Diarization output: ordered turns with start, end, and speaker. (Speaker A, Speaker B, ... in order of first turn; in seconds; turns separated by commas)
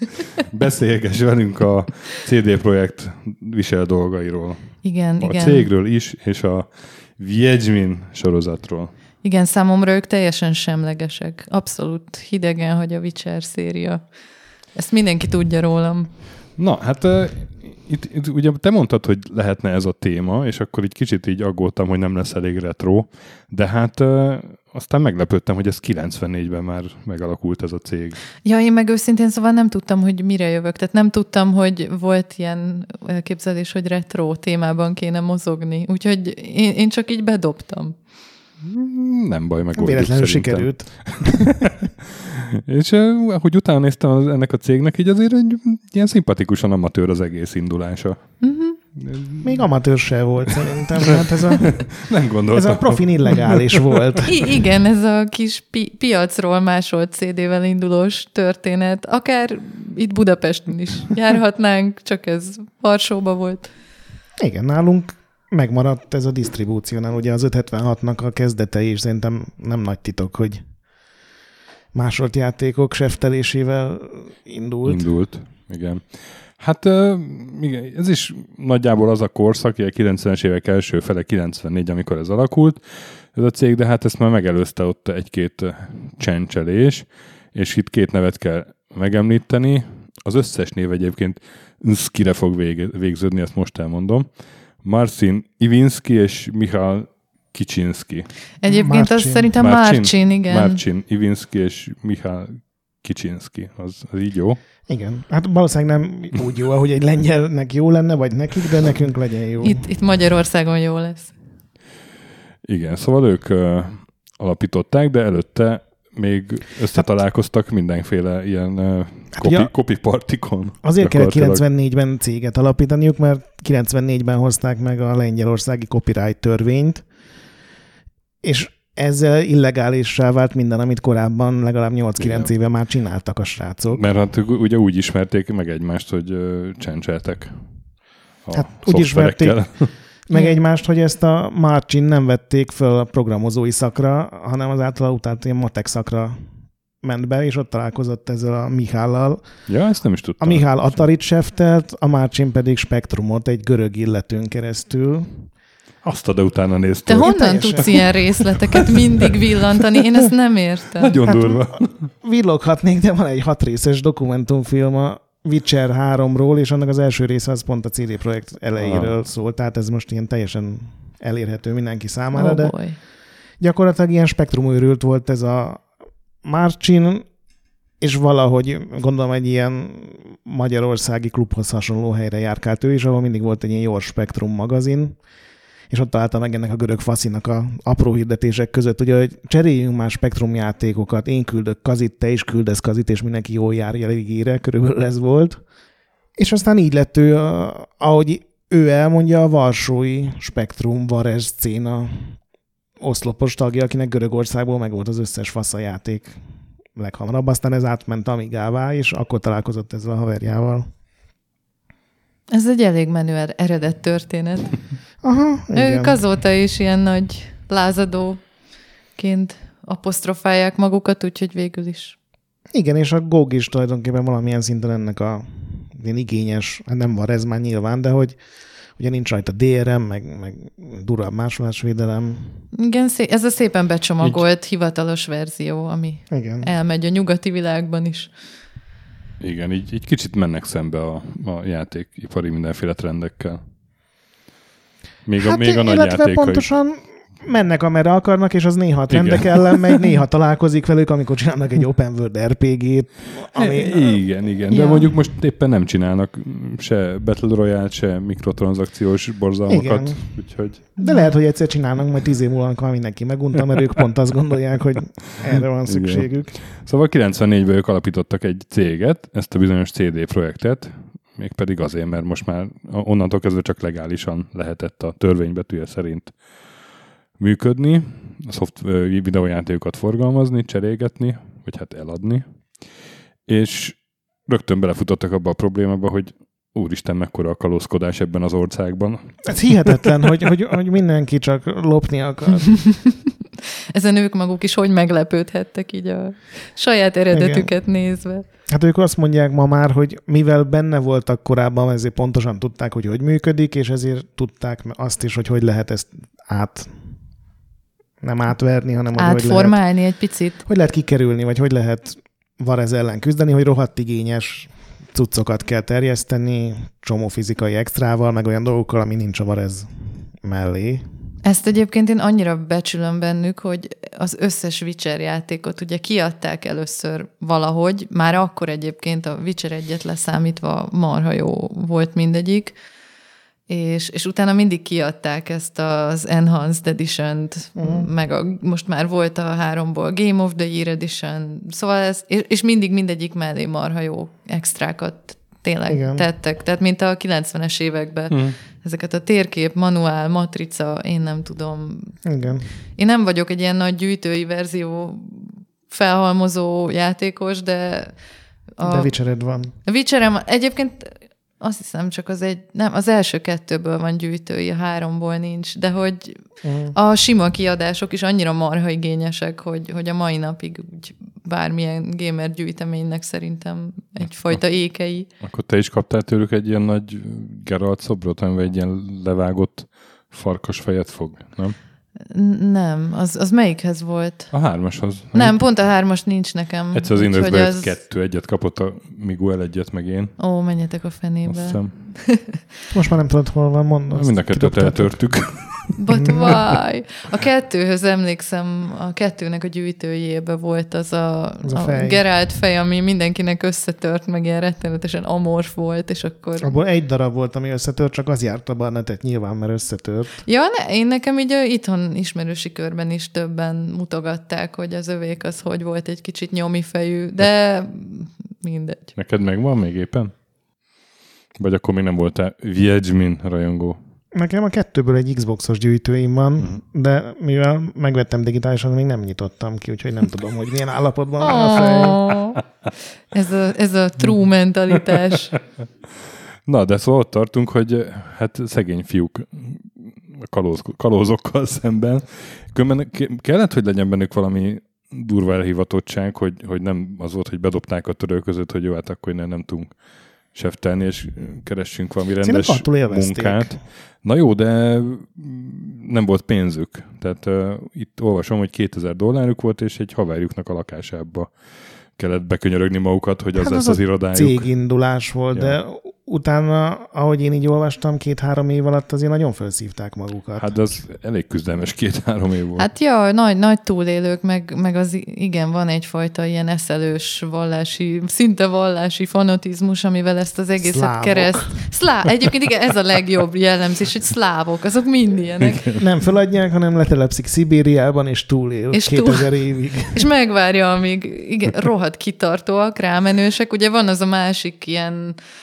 Speaker A: 0.4-8.9, Speaker B: 4.8-5.7, Speaker B: 9.2-14.0, Speaker B: 14.7-16.1, Speaker A: 16.6-28.2, Speaker B: 28.4-37.9, Speaker A: 38.6-48.3, Speaker C: 39.7-41.7, Speaker B: 48.4-48.8, Speaker A: 49.0-49.7, Speaker C: 49.4-52.0, Speaker A: 50.5-54.2, Speaker C: 52.5-54.5, Speaker B: 54.2-63.7, Speaker C: 64.4-70.6, Speaker C: 71.9-75.0, Speaker A: 74.8-94.3, Speaker A: 94.8-98.3, Speaker B: 98.6-100.8, Speaker C: 98.6-99.5, Speaker A: 99.6-104.6, Speaker C: 104.9-109.9, Speaker B: 109.6-111.3, Speaker A: 112.6-121.6, Speaker C: 119.3-119.7, Speaker C: 120.8-127.0, Speaker C: 128.4-134.0, Speaker A: 132.2-132.5, Speaker A: 133.9-137.6, Speaker A: 138.4-139.9, Speaker C: 138.5-146.3, Speaker B: 140.3-140.6, Speaker C: 147.0-149.5, Speaker A: 149.7-150.9, Speaker C: 150.4-155.5, Speaker A: 156.0-159.0, Speaker B: 157.1-161.5, Speaker C: 157.2-158.1, Speaker A: 161.0-162.1, Speaker C: 162.2-172.7, Speaker A: 168.8-169.1, Speaker B: 172.3-173.0, Speaker C: 173.6-175.8, Speaker C: 176.4-177.3, Speaker C: 178.0-185.2, Speaker C: 185.9-195.6, Speaker C: 196.4-202.3, Speaker C: 203.0-206.3, Speaker C: 206.9-210.9, Speaker B: 212.5-214.8, Speaker C: 215.2-216.2, Speaker B: 215.7-218.4, Speaker B: 219.2-222.2, Speaker C: 222.7-228.4, Speaker C: 229.0-232.5, Speaker B: 232.7-238.3, Speaker C: 236.3-236.7, Speaker A: 239.4-243.6, Speaker A: 245.2-246.6, Speaker C: 245.4-254.2, Speaker A: 249.1-250.0, Speaker A: 253.5-260.9, Speaker B: 254.7-255.1, Speaker C: 259.7-266.6, Speaker B: 261.0-261.3, Speaker A: 265.8-276.4, Speaker A: 277.4-282.4, Speaker A: 283.5-290.1, Speaker C: 289.5-292.8, Speaker B: 293.9-298.4, Speaker C: 297.3-297.7, Speaker C: 298.7-306.9, Speaker C: 308.2-309.8, Speaker B: 309.1-310.6, Speaker C: 310.6-319.9, Speaker C: 320.4-321.0, Speaker B: 321.4-332.7, Speaker B: 333.7-352.2, Speaker C: 337.8-338.1, Speaker C: 345.9-346.2, Speaker A: 348.3-348.6, Speaker C: 352.2-352.7, Speaker B: 352.9-358.1, Speaker B: 358.8-359.1, Speaker C: 358.8-359.7, Speaker B: 359.8-366.4, Speaker C: 366.6-366.9, Speaker B: 366.9-375.3, Speaker A: 375.4-381.8, Speaker B: 382.3-384.5, Speaker A: 384.5-385.8, Speaker B: 385.3-387.9, Speaker A: 386.9-390.4, Speaker B: 390.4-392.6, Speaker A: 391.4-391.9, Speaker C: 392.9-395.3, Speaker A: 394.1-396.0, Speaker B: 396.0-406.8, Speaker C: 396.1-396.5, Speaker C: 401.6-402.2, Speaker C: 406.6-410.4, Speaker B: 410.4-419.1, Speaker A: 419.1-420.3, Speaker A: 421.6-424.0, Speaker C: 424.3-432.2, Speaker B: 431.4-432.6, Speaker B: 433.3-435.5, Speaker A: 436.6-449.9, Speaker A: 450.5-461.6, Speaker C: 452.4-453.7, Speaker A: 462.1-464.7, Speaker C: 463.6-470.7, Speaker A: 465.5-465.8, Speaker A: 470.6-472.9, Speaker B: 472.8-485.8, Speaker C: 480.8-481.9, Speaker A: 485.6-486.0, Speaker C: 485.9-490.3, Speaker B: 488.9-489.5, Speaker B: 490.1-495.4